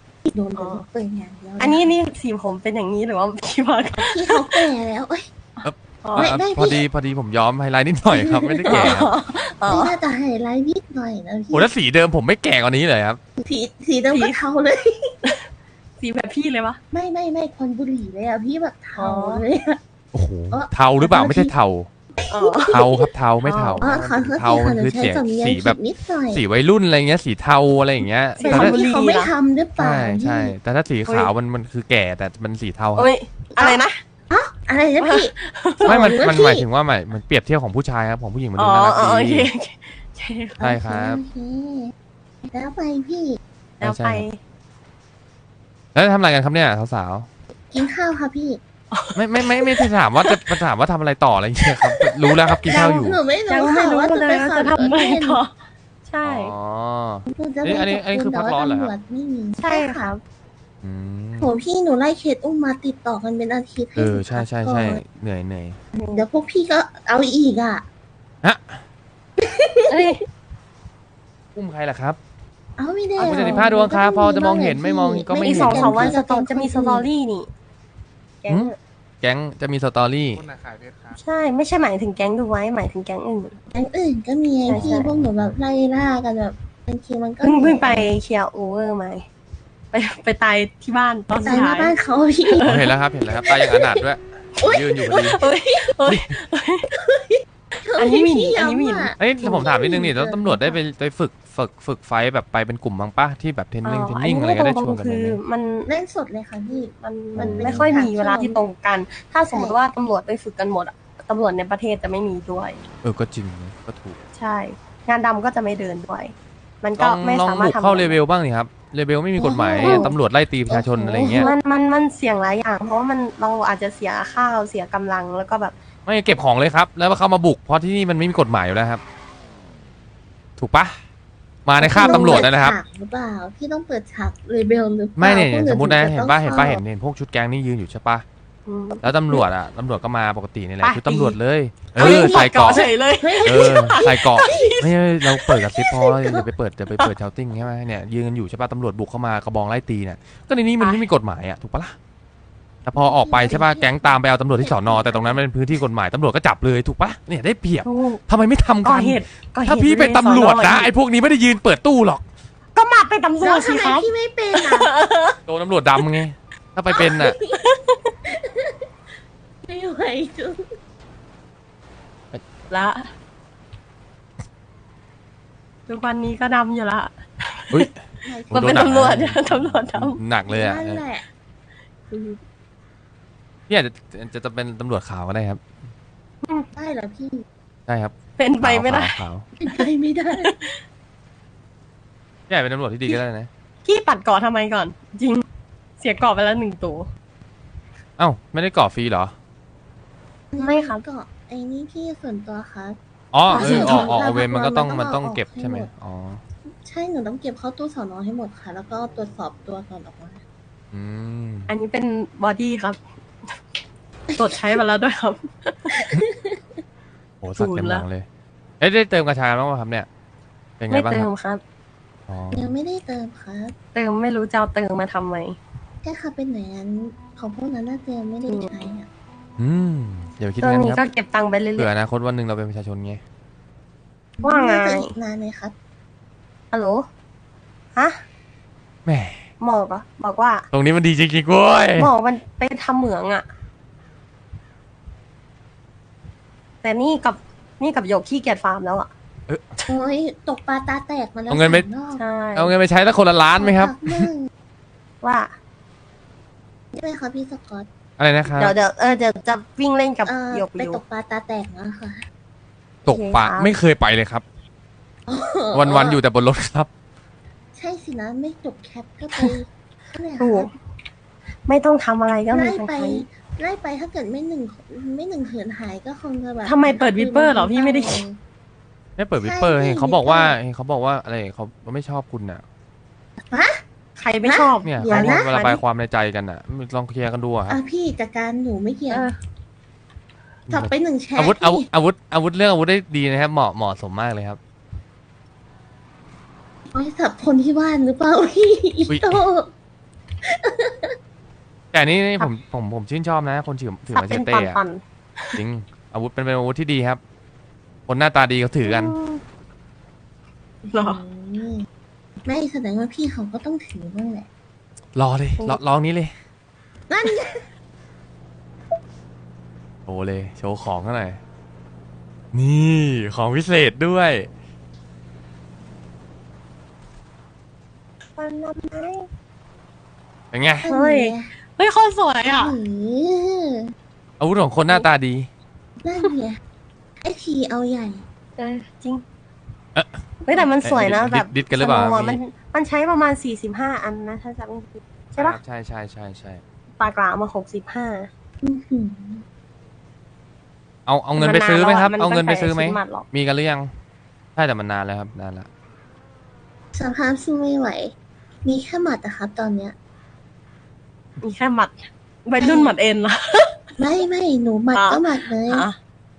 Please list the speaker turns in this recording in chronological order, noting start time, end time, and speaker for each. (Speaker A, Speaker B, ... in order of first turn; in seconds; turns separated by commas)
Speaker A: 0.2-1.9, Speaker B: 0.6-0.8, Speaker B: 1.6-4.7, Speaker A: 3.9-5.3, Speaker B: 5.6-6.3, Speaker C: 5.6-9.1, Speaker A: 6.2-6.8, Speaker A: 8.1-9.0, Speaker B: 8.7-10.0, Speaker A: 9.7-11.7, Speaker C: 11.5-13.2, Speaker A: 13.4-15.1, Speaker B: 14.1-14.4, Speaker B: 16.0-16.8, Speaker A: 16.9-19.8, Speaker B: 18.9-19.4, Speaker C: 20.1-21.9, Speaker A: 20.5-21.5, Speaker A: 22.2-23.0, Speaker B: 22.3-22.9, Speaker C: 22.7-25.8, Speaker B: 23.4-24.0, Speaker A: 23.8-26.4, Speaker C: 26.3-28.8, Speaker B: 28.4-29.3, Speaker A: 28.4-30.5, Speaker C: 29.8-33.1, Speaker B: 31.1-31.3, Speaker B: 33.0-34.0, Speaker A: 33.5-35.3, Speaker B: 35.0-36.2, Speaker A: 35.8-36.6, Speaker C: 35.8-39.5, Speaker B: 38.6-40.6, Speaker A: 40.6-41.9, Speaker C: 40.6-41.2, Speaker A: 42.5-43.4, Speaker C: 43.8-44.2, Speaker B: 43.8-44.4, Speaker C: 45.9-47.3, Speaker A: 47.7-48.6, Speaker B: 48.9-50.6, Speaker C: 49.1-53.2, Speaker B: 52.0-52.6, Speaker A: 52.6-55.4, Speaker B: 53.5-55.5, Speaker B: 56.0-56.5, Speaker C: 56.2-58.9, Speaker A: 57.3-60.1, Speaker B: 59.6-60.2, Speaker C: 60.8-61.5, Speaker A: 61.4-65.0, Speaker C: 64.0-65.8, Speaker A: 65.9-67.8, Speaker C: 68.4-68.8, Speaker A: 69.4-70.1, Speaker B: 69.9-70.2, Speaker C: 71.5-72.2, Speaker A: 72.8-77.1, Speaker B: 73.2-73.7, Speaker C: 73.2-76.2, Speaker B: 75.4-77.5, Speaker B: 78.4-78.8, Speaker C: 78.5-80.5, Speaker B: 81.1-83.5, Speaker A: 83.7-88.1, Speaker B: 84.7-85.1, Speaker C: 84.7-85.5, Speaker B: 87.4-89.3, Speaker B: 89.9-91.9, Speaker A: 91.4-92.7, Speaker B: 92.5-92.9, Speaker C: 92.6-95.4, Speaker A: 94.6-95.4, Speaker B: 95.1-96.9, Speaker A: 97.0-100.7, Speaker B: 98.0-99.7, Speaker C: 99.2-105.4, Speaker B: 103.8-105.9, Speaker A: 105.9-108.6, Speaker B: 107.0-112.8, Speaker C: 107.4-107.9, Speaker A: 109.5-109.8, Speaker C: 113.0-114.2, Speaker B: 114.3-118.2, Speaker C: 117.0-121.5, Speaker A: 119.4-120.1, Speaker B: 119.8-120.1, Speaker A: 120.7-121.5, Speaker B: 121.2-125.8, Speaker C: 126.0-129.0, Speaker C: 130.6-131.0, Speaker C: 131.7-132.8, Speaker B: 131.8-132.5, Speaker A: 131.8-136.8, Speaker C: 135.2-138.2, Speaker B: 138.7-139.4, Speaker C: 139.0-142.9, Speaker B: 140.8-141.4, Speaker A: 141.9-144.8, Speaker B: 142.0-146.4, Speaker C: 143.4-151.9, Speaker B: 150.8-151.1, Speaker C: 152.9-162.2, Speaker A: 152.9-155.4, Speaker B: 157.8-158.2, Speaker B: 158.8-160.9, Speaker B: 162.8-165.4, Speaker A: 163.4-164.9, Speaker C: 165.5-167.4, Speaker A: 166.9-167.7, Speaker B: 167.0-167.9, Speaker A: 168.3-168.8, Speaker A: 169.6-170.7, Speaker B: 172.7-173.1, Speaker B: 175.9-177.9, Speaker A: 178.2-179.2, Speaker B: 178.5-180.2, Speaker C: 178.5-181.0, Speaker A: 180.4-181.2, Speaker B: 182.1-182.4, Speaker C: 183.7-185.6, Speaker A: 186.8-187.4, Speaker C: 187.9-189.5, Speaker B: 188.4-189.8, Speaker A: 189.6-190.5, Speaker B: 190.4-190.8, Speaker C: 192.5-193.5, Speaker B: 193.8-195.4, Speaker B: 196.0-197.1, Speaker C: 198.2-199.3, Speaker A: 200.5-203.0, Speaker B: 200.6-201.0, Speaker C: 203.3-206.4, Speaker A: 203.5-205.9, Speaker B: 203.5-204.2, Speaker A: 206.7-210.4, Speaker C: 210.9-211.7, Speaker B: 211.7-213.0, Speaker A: 214.3-214.8, Speaker B: 214.4-216.0, Speaker A: 215.9-216.8, Speaker C: 217.4-218.3, Speaker B: 217.6-218.1, Speaker C: 218.8-220.1, Speaker C: 220.8-221.3, Speaker B: 220.9-221.6, Speaker C: 222.3-222.7, Speaker A: 222.5-223.8, Speaker B: 223.9-225.6, Speaker A: 226.0-229.1, Speaker B: 228.5-228.7, Speaker C: 229.6-231.0, Speaker B: 230.6-231.9, Speaker C: 231.8-233.2, Speaker A: 234.4-235.7, Speaker B: 234.4-235.1, Speaker B: 236.7-237.1, Speaker C: 239.1-239.4, Speaker B: 239.6-240.7, Speaker C: 240.7-242.1, Speaker B: 242.0-243.5, Speaker B: 246.8-249.1, Speaker A: 249.9-252.2, Speaker C: 251.5-251.9, Speaker B: 252.1-252.7, Speaker C: 252.6-254.3, Speaker A: 253.6-254.5, Speaker B: 255.2-255.5, Speaker A: 256.9-257.9, Speaker C: 258.2-258.8, Speaker B: 258.6-261.0, Speaker A: 260.2-262.2, Speaker C: 263.0-264.4, Speaker B: 263.1-263.8, Speaker A: 265.3-266.2, Speaker C: 265.7-266.9, Speaker A: 267.8-270.7, Speaker B: 270.4-270.7, Speaker B: 271.6-273.2, Speaker A: 272.5-278.4, Speaker B: 276.6-278.2, Speaker C: 279.2-282.6, Speaker A: 279.4-280.6, Speaker A: 283.5-283.8, Speaker B: 284.2-285.8, Speaker A: 284.4-285.5, Speaker C: 284.8-287.8, Speaker A: 287.7-289.3, Speaker B: 289.1-289.4, Speaker C: 290.7-294.6, Speaker A: 290.7-291.9, Speaker A: 296.9-299.7, Speaker C: 299.1-299.4, Speaker A: 300.4-301.1, Speaker C: 301.9-304.8, Speaker B: 304.1-305.6, Speaker C: 305.5-307.2, Speaker C: 308.1-309.1, Speaker B: 308.8-309.4, Speaker B: 310.9-311.2, Speaker A: 310.9-311.9, Speaker A: 312.4-314.5, Speaker C: 315.1-316.3, Speaker A: 317.1-317.7, Speaker C: 320.1-321.4, Speaker C: 322.5-324.5, Speaker B: 328.4-329.3, Speaker C: 330.5-330.9, Speaker A: 330.8-331.5, Speaker B: 330.9-332.8, Speaker A: 332.5-333.9, Speaker C: 334.4-335.5, Speaker A: 336.0-336.6, Speaker A: 337.2-338.2, Speaker B: 338.6-339.2, Speaker C: 339.9-340.2, Speaker B: 340.4-345.6, Speaker C: 340.8-342.4, Speaker C: 345.4-346.6, Speaker B: 347.0-348.3, Speaker A: 348.6-349.4, Speaker C: 351.1-353.9, Speaker B: 351.4-353.2, Speaker C: 354.6-355.7, Speaker A: 356.9-358.1, Speaker A: 358.6-359.9, Speaker B: 361.4-363.8, Speaker A: 362.6-362.9, Speaker A: 364.0-365.9, Speaker B: 364.9-365.9